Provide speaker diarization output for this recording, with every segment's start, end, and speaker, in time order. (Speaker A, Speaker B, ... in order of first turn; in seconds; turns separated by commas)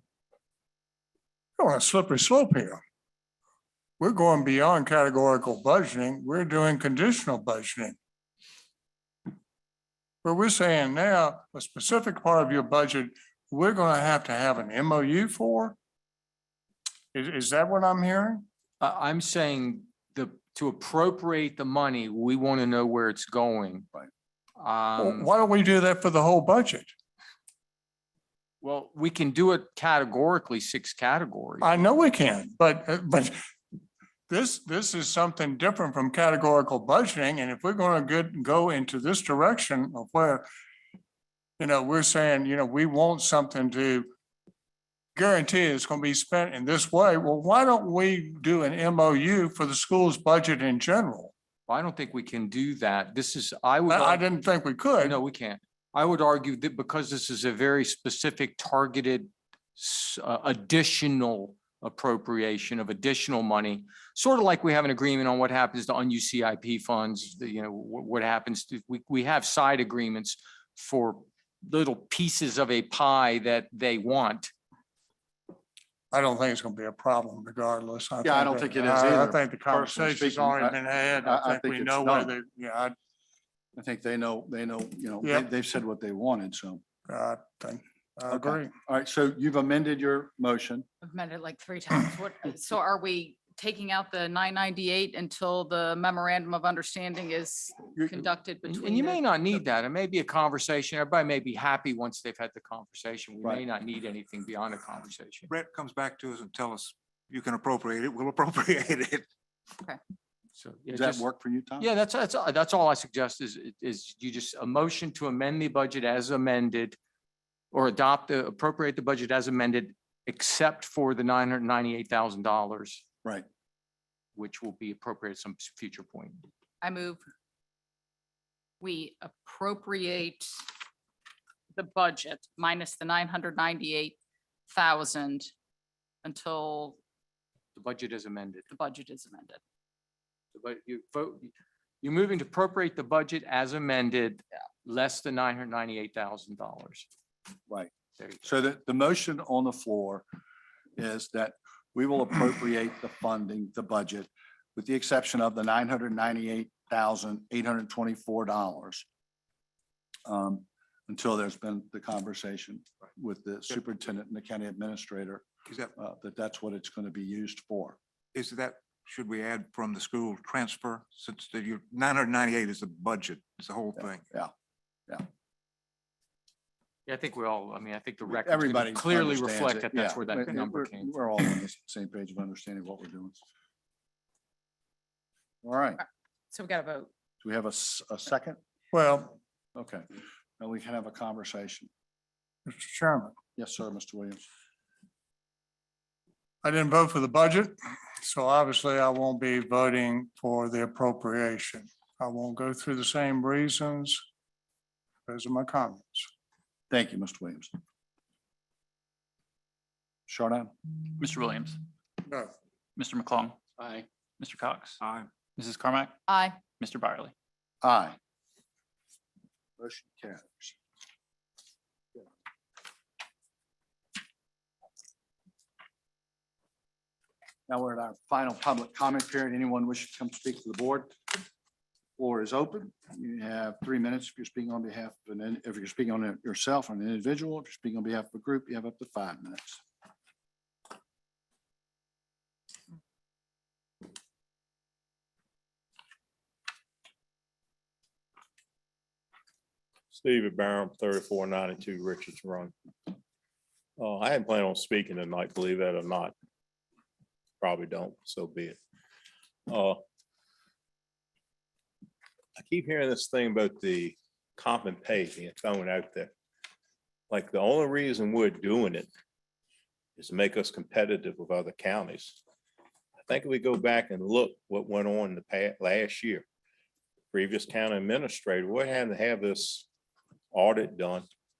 Speaker A: 1.6-2.8, Speaker A: 4.0-8.0, Speaker A: 10.2-15.8, Speaker A: 17.1-18.4, Speaker B: 18.8-23.9, Speaker B: 24.6-25.3, Speaker A: 25.0-26.9, Speaker B: 28.6-31.8, Speaker A: 31.6-33.4, Speaker A: 34.3-40.5, Speaker A: 41.6-44.1, Speaker A: 45.1-51.3, Speaker B: 51.7-54.3, Speaker A: 53.9-55.2, Speaker B: 55.0-74.5, Speaker A: 76.1-83.0, Speaker C: 78.2-82.3, Speaker C: 83.8-86.8, Speaker A: 87.1-88.7, Speaker C: 88.3-90.9, Speaker D: 91.0-99.2, Speaker B: 98.7-105.5, Speaker E: 105.5-109.3, Speaker B: 110.6-111.3, Speaker C: 110.9-111.9, Speaker B: 111.8-117.0, Speaker B: 117.7-123.0, Speaker B: 124.3-126.5, Speaker D: 126.8-127.2, Speaker D: 128.8-130.6, Speaker D: 131.7-134.2, Speaker D: 134.7-135.5, Speaker D: 136.2-137.0, Speaker B: 137.8-138.7, Speaker D: 138.7-139.6, Speaker B: 140.5-141.5, Speaker B: 142.0-147.1, Speaker B: 148.2-148.5, Speaker C: 148.4-150.2, Speaker C: 151.0-159.1, Speaker C: 160.3-168.0, Speaker E: 168.3-174.2, Speaker B: 177.1-181.2, Speaker C: 178.3-183.4, Speaker C: 185.6-186.0, Speaker D: 186.5-187.1, Speaker C: 187.4-188.6, Speaker A: 188.9-189.4, Speaker C: 189.8-190.1, Speaker C: 190.6-191.9, Speaker A: 192.7-193.3, Speaker C: 193.6-194.5, Speaker A: 196.6-204.2, Speaker A: 205.3-206.3, Speaker C: 206.9-207.7, Speaker C: 210.3-210.7, Speaker F: 211.2-211.8, Speaker A: 212.3-212.5, Speaker F: 213.0-215.0, Speaker E: 215.0-215.3, Speaker F: 215.6-216.2, Speaker D: 216.3-216.6, Speaker F: 216.7-217.3, Speaker C: 217.8-218.2, Speaker C: 219.8-220.8, Speaker C: 227.7-231.4, Speaker C: 232.2-239.8, Speaker G: 250.1-252.7, Speaker G: 254.0-256.3, Speaker G: 257.6-258.8, Speaker G: 259.7-260.0, Speaker G: 262.6-266.3, Speaker G: 267.3-269.1, Speaker G: 270.2-272.4, Speaker G: 273.3-276.5, Speaker G: 277.3-279.9, Speaker G: 280.5-281.3